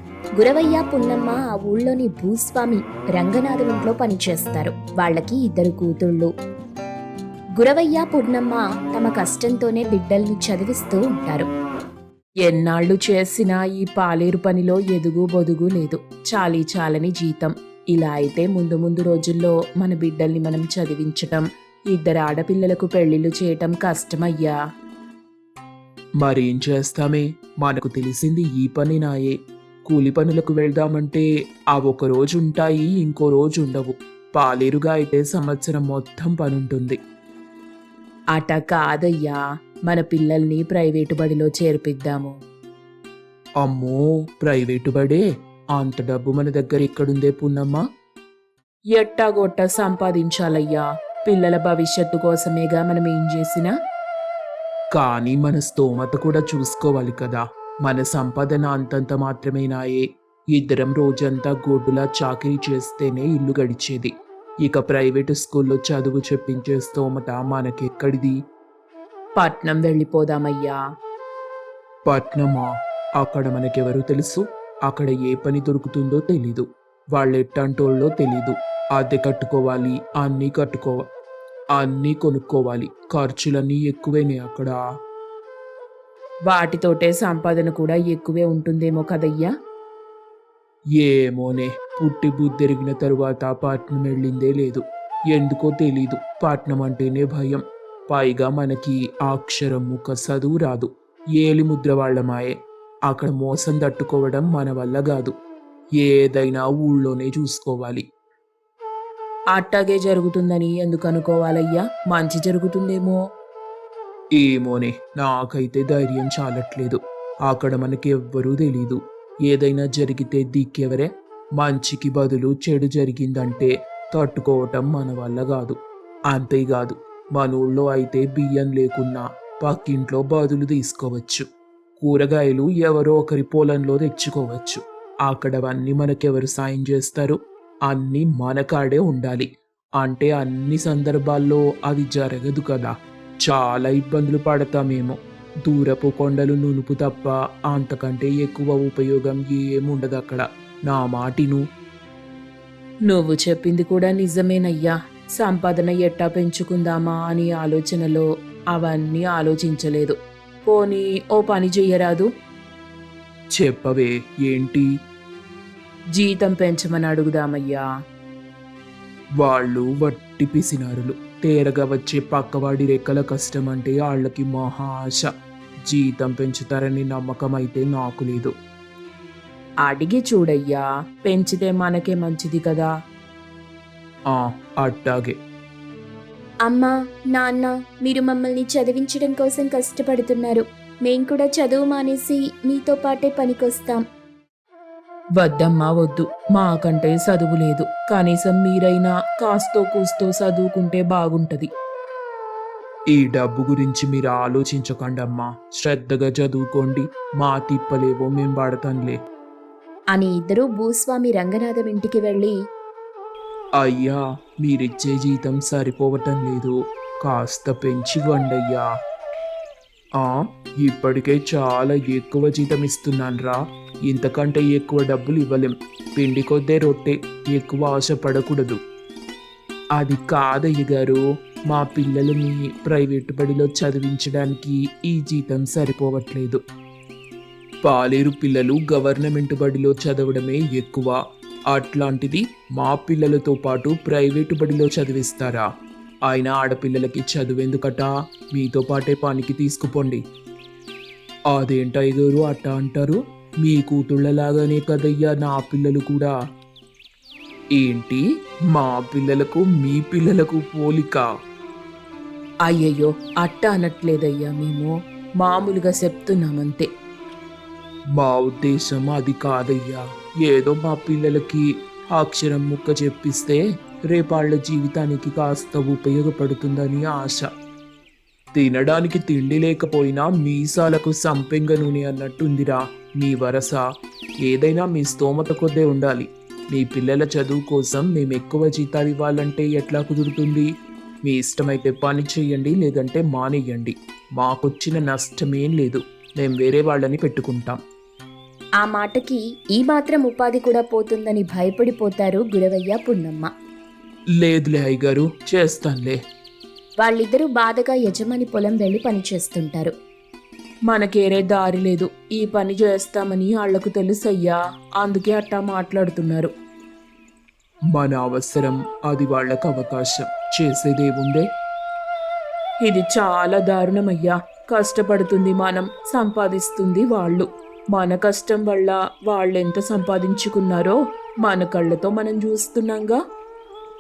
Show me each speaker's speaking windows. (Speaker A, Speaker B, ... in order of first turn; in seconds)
Speaker A: 0.4-6.3, 7.6-11.5, 12.5-24.6, 38.3-42.3, 49.0-53.7, 69.4-70.8, 86.5-89.5, 109.5-113.2, 153.1-160.2, 160.7-162.3, 166.2-167.8, 179.8-182.9, 186.7-194.0, 195.4-201.7, 210.1-212.5, 262.7-266.9, 298.8-303.5, 307.0-309.9, 311.1-316.5, 322.9-324.3, 324.9-327.4, 328.3-330.1, 331.5-333.2
Speaker B: 26.2-29.4, 29.9-37.0, 43.6-45.2, 45.8-47.8, 54.9-64.1, 64.6-68.4, 72.1-81.0, 81.7-84.8, 91.0-102.5, 103.1-105.3, 106.0-108.0, 114.3-125.8, 126.3-131.5, 132.0-139.5, 140.0-151.6, 163.6-164.9, 169.4-175.3, 175.9-178.5, 184.3-185.4, 203.1-209.2, 213.8-218.9, 220.2-228.8, 230.0-236.6, 237.8-241.2, 241.7-245.7, 246.3-250.2, 251.5-256.3, 257.8-261.2, 268.1-277.5, 278.5-283.8, 284.4-290.7, 291.3-297.8, 304.4-306.2, 310.9-311.8, 317.9-321.5, 326.4-327.3, 328.0-328.5, 330.1-330.5